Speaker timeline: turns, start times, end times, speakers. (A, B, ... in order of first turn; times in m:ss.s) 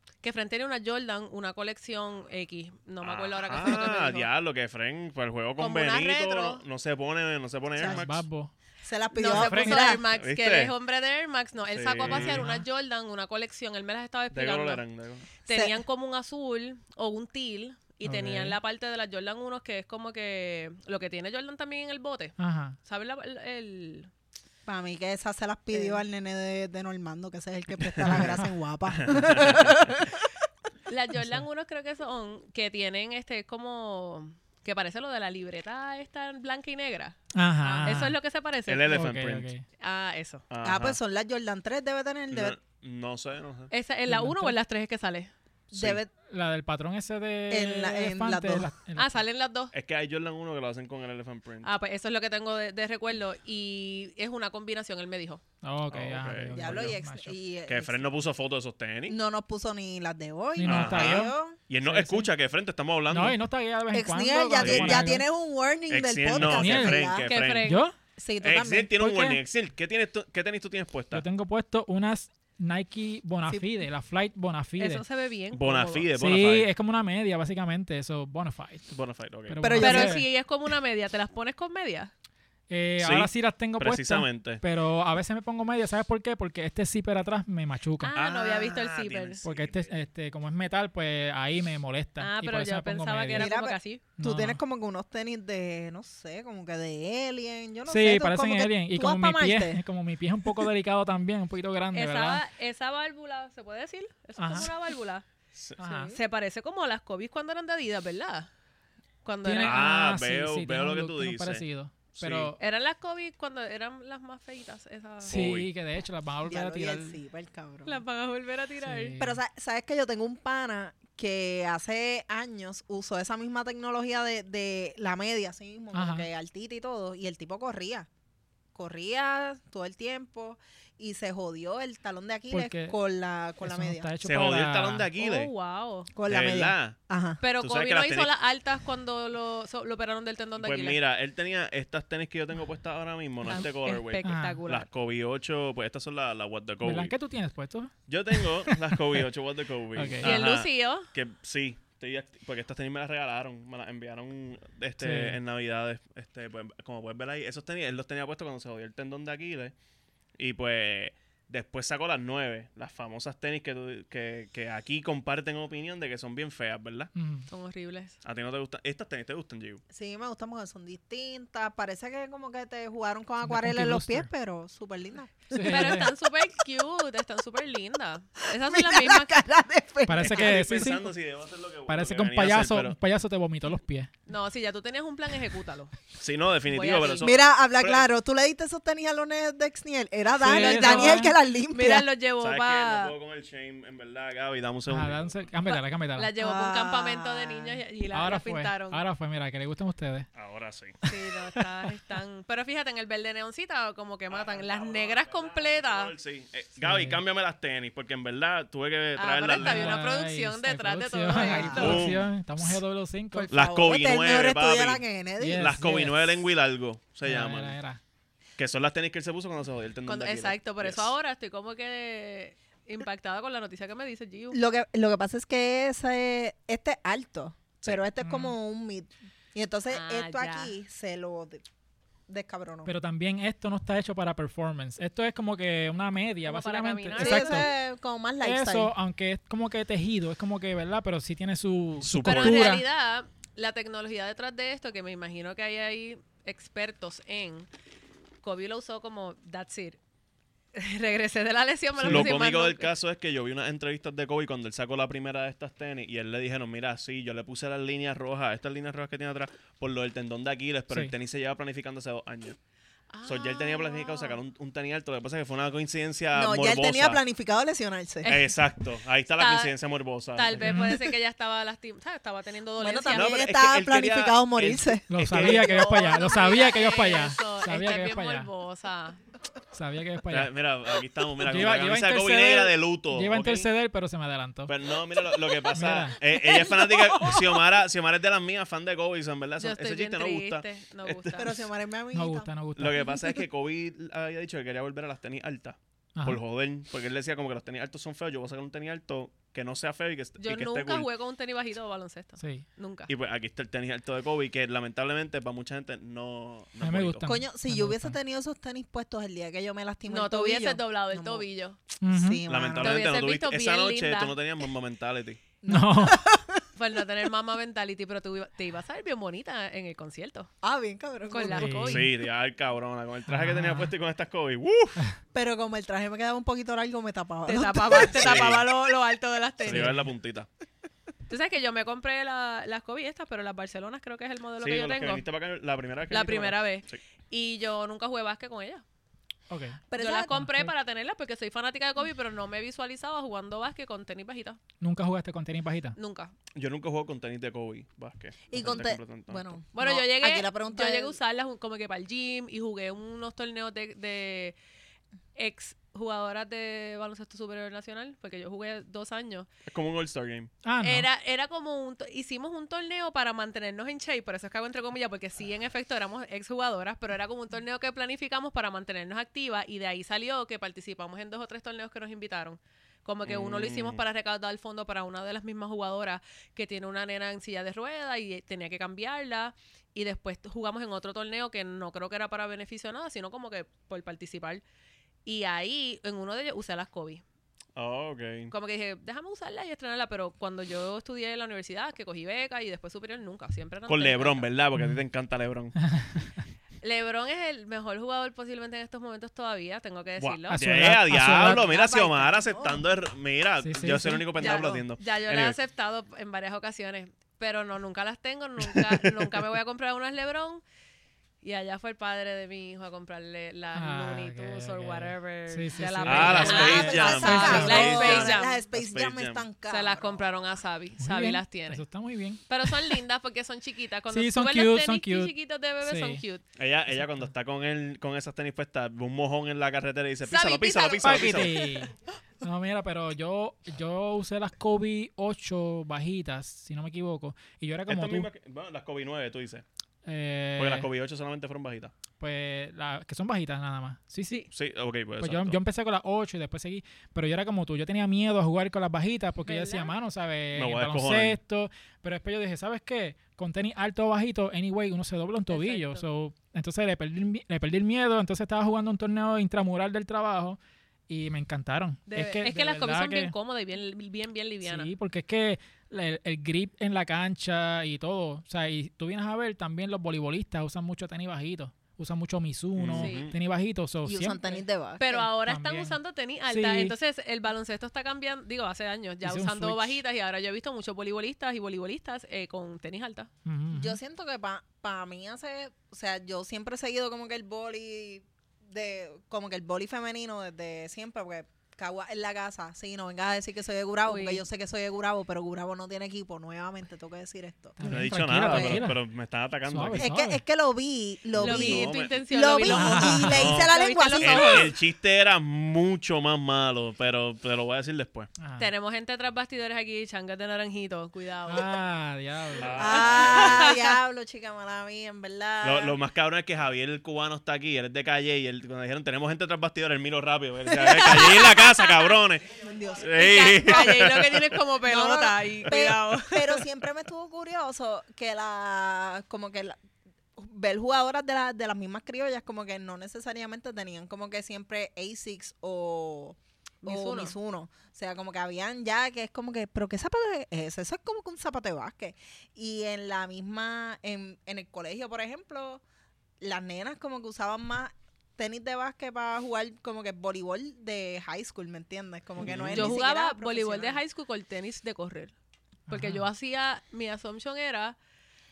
0:00.2-0:04.3 A
0:03.0-0:08.2 B
0:05.6-0:06.6 A
0:07.8-0:08.5 C
0:08.8-0:10.0 D
0:09.1-0:14.8 A
0:09.3-0:09.8 C
0:09.9-0:10.7 B
0:11.7-0:12.4 B
0:12.1-0:12.6 C
0:14.3-0:15.3 B
0:15.4-0:24.1 A
0:15.5-0:15.8 D
0:18.0-0:18.6 C
0:22.4-0:22.8 C
0:24.6-0:30.3 D
0:25.7-0:26.0 A
0:27.9-0:28.3 B
0:28.1-0:28.4 C
0:28.9-0:29.9 B
0:30.9-0:39.1 A
0:31.2-0:31.4 C
0:37.3-0:38.2 C
0:37.6-0:38.0 D
0:38.7-0:39.5 B
0:38.9-0:39.6 C
0:39.8-0:40.4 A
0:40.5-0:41.0 B
0:40.6-0:42.6 D
0:42.3-0:43.7 B
0:43.7-0:45.3 A
0:44.1-0:44.6 C
0:45.7-0:46.0 B
0:45.7-0:46.1 D
0:46.3-0:49.2 C
0:47.5-0:48.7 D
0:49.0-0:49.7 A
0:49.7-0:51.7 B
0:51.6-0:55.4 A
0:55.6-0:57.3 C
0:55.9-0:57.0 B
0:56.5-0:58.0 D
0:57.7-0:59.2 B
0:59.1-1:01.6 D
1:00.6-1:02.3 C
1:00.6-1:03.4 B
1:03.1-1:05.2 C
1:03.9-1:07.3 D
1:04.6-1:05.0 B
1:05.9-1:07.8 B
1:06.3-1:07.1 C
1:07.2-1:07.8 A
1:07.6-1:07.9 C
1:08.2-1:09.0 D
1:08.4-1:11.2 B
1:09.0-1:09.4 C
1:11.1-1:15.0 C
1:13.5-1:13.8 D
1:14.8-1:16.1 A
1:15.5-1:16.7 B
1:16.2-1:18.9 C
1:18.9-1:19.9 B
1:19.5-1:20.3 C
1:19.6-1:20.2 D
1:19.8-1:22.1 A
1:22.7-1:28.2 C
1:23.0-1:24.6 B
1:28.0-1:29.4 A
1:28.1-1:29.9 B
1:29.4-1:33.5 C
1:32.2-1:34.0 A
1:33.3-1:39.8 D
1:34.2-1:34.6 C
1:37.8-1:42.4 C
1:41.9-1:45.2 A
1:44.4-1:44.7 C
1:45.8-1:46.2 C
1:45.8-1:48.5 A
1:49.2-1:49.8 A
1:49.4-1:52.6 C
1:49.6-1:51.6 B
1:52.2-1:52.5 B
1:52.6-1:55.4 A
1:55.2-1:57.2 C
1:55.3-1:55.7 B
1:56.4-1:58.0 D
1:57.8-1:59.1 A
1:58.8-1:59.4 C
1:59.2-2:08.1 D
2:05.9-2:06.3 C
2:08.7-2:14.1 D
2:12.5-2:13.0 C
2:13.6-2:15.1 C
2:14.2-2:15.5 B
2:15.2-2:16.1 A
2:16.1-2:17.4 D
2:16.3-2:17.0 B
2:17.4-2:21.0 A
2:17.6-2:18.3 B
2:20.6-2:27.1 B
2:23.4-2:24.9 A
2:24.2-2:24.6 C
2:26.8-2:29.2 C
2:28.1-2:39.7 B
2:29.9-2:30.4 C
2:30.2-2:31.1 A
2:35.0-2:35.4 C
2:40.4-2:47.1 B
2:47.1-2:47.4 C
2:47.5-2:48.2 A
2:48.2-2:49.8 B
2:49.9-2:56.1 D
2:53.4-2:54.3 C
2:55.5-2:56.1 C
2:55.6-2:59.4 A
2:58.5-3:00.5 D
3:00.0-3:01.1 C
3:00.2-3:03.0 B
3:01.9-3:04.1 C
3:04.3-3:06.0 A
3:06.2-3:08.0 B
3:06.7-3:07.3 A
3:07.2-3:12.1 D
3:10.4-3:11.3 C
3:10.4-3:13.1 A
3:12.4-3:15.4 B
3:14.9-3:16.3 C
3:15.6-3:19.0 A
3:16.4-3:17.8 D
3:18.1-3:20.3 C
3:20.3-3:21.0 B
3:21.0-3:26.1 A
3:21.1-3:21.9 C
3:24.3-3:30.0 B
3:26.8-3:27.2 C
3:29.2-3:32.1 A
3:29.6-3:33.5 C
3:31.3-3:31.9 D
3:31.7-3:32.3 B
3:33.3-3:35.7 D
3:33.5-3:35.0 B
3:35.4-3:36.3 C
3:35.5-3:37.8 B
3:37.2-3:38.0 C
3:38.6-3:41.1 B
3:40.0-3:44.6 A
3:44.5-3:51.6 D
3:48.2-3:48.5 C
3:49.9-3:50.7 A
3:52.3-3:52.9 D
3:52.8-3:57.7 C
3:56.4-3:57.7 A
3:57.2-3:58.9 D
3:58.4-4:02.8 C
4:02.0-4:02.6 B
4:02.2-4:07.7 A
4:08.4-4:10.0 A
4:10.7-4:12.9 A
4:12.0-4:12.3 C
4:12.0-4:22.6 B
4:23.1-4:24.4 A
4:23.2-4:27.2 B
4:26.3-4:28.3 D
4:28.2-4:28.6 A
4:28.2-4:30.8 B
4:29.4-4:29.7 A
4:30.3-4:33.4 A
4:30.6-4:30.9 C
4:32.8-4:35.4 D
4:33.1-4:36.2 B
4:35.1-4:38.5 C
4:35.4-4:39.2 A
4:39.7-4:40.5 C
4:40.3-4:43.7 B
4:41.4-4:44.7 C
4:44.6-4:51.7 B
4:45.7-4:46.2 C
4:46.4-4:47.0 D
4:49.6-4:51.6 A
4:51.3-4:52.5 D
4:52.1-4:53.0 C
4:52.8-5:01.1 B
4:53.0-4:53.4 D
5:00.4-5:03.1 A
5:02.4-5:02.6 C
5:03.1-5:07.3 B
5:06.8-5:08.2 C
5:07.2-5:11.5 D
5:10.1-5:11.8 A
5:12.0-5:12.4 C
5:12.1-5:13.0 D
5:12.5-5:15.4 B
5:12.8-5:14.4 A
5:15.6-5:16.6 D
5:15.7-5:16.2 C
5:16.8-5:20.5 A
5:20.6-5:21.9 D
5:21.3-5:22.1 A
5:21.5-5:22.1 C
5:21.9-5:25.0 B
5:23.3-5:23.9 C
5:25.3-5:28.5 D
5:27.4-5:30.0 A
5:28.1-5:28.6 B
5:29.6-5:30.5 B
5:29.7-5:30.0 C
5:31.3-5:35.2 A
5:34.6-5:37.0 B
5:36.1-5:38.8 A
5:39.5-5:40.7 C
5:39.9-5:40.3 D
5:40.0-5:44.6 A
5:44.8-5:46.0 C
5:46.0-5:46.3 A
5:46.5-5:49.6 B
5:48.5-5:51.2 D
5:49.7-5:54.5 A
5:55.4-5:59.5 A
5:59.7-6:00.5 B
6:00.6-6:01.1 C
6:00.8-6:24.6 A
6:13.2-6:14.0 B
6:25.2-6:27.2 A
6:27.8-6:28.5 B
6:28.5-6:34.5 A
6:33.9-6:35.7 B
6:34.7-6:35.0 C
6:35.8-6:36.4 C
6:36.8-6:40.6 A
6:40.2-6:45.6 B
6:40.5-6:41.6 C
6:41.4-6:42.8 D
6:43.6-6:44.5 C
6:44.4-6:50.6 A
6:48.6-6:49.1 B
6:51.4-6:58.6 A
6:53.7-6:57.9 C
6:56.0-6:59.4 B
6:56.4-7:00.2 D
6:59.6-7:01.8 A
7:01.0-7:03.0 C
7:02.5-7:06.4 A
7:04.1-7:06.2 C
7:06.6-7:11.6 B
7:06.9-7:07.2 C
7:10.2-7:11.6 A
7:11.0-7:18.3 C
7:17.9-7:19.6 B
7:20.0-7:20.9 C
7:20.6-7:21.9 B
7:22.2-7:24.4 C
7:24.5-7:25.6 B
7:25.2-7:40.6 C
7:29.4-7:29.9 A
7:30.5-7:31.4 B
7:35.5-7:36.0 A
7:41.1-7:43.3 C
7:42.1-7:44.9 A
7:44.6-7:54.6 C
7:52.8-7:53.3 B
7:52.9-7:53.2 A
7:54.0-7:55.3 D
7:55.0-8:03.3 A
7:55.5-7:56.0 C
7:56.5-7:56.9 C
7:59.2-8:00.0 C
8:03.4-8:04.0 C
8:03.7-8:17.8 D
8:14.1-8:14.4 A
8:17.8-8:19.0 C
8:17.8-8:20.1 B
8:18.4-8:18.8 D
8:19.7-8:20.4 C
8:20.0-8:24.7 D
8:21.3-8:22.2 B
8:21.4-8:24.7 A
8:22.7-8:23.3 C
8:23.3-8:28.3 B
8:28.4-8:28.7 C
8:28.6-8:31.8 A
8:31.5-8:32.8 C
8:32.6-8:33.7 B
8:32.8-8:36.0 D
8:32.8-8:34.0 A
8:35.6-8:44.5 B
8:40.7-8:41.8 D
8:41.1-8:41.5 A
8:42.6-8:44.0 D
8:43.1-8:46.6 A
8:44.8-8:49.8 D
8:50.4-9:05.8 D
8:56.8-8:57.3 A
9:06.4-9:14.0 D
9:12.4-9:13.0 B
9:12.7-9:15.3 A
9:15.9-9:16.3 C
9:15.9-9:18.0 A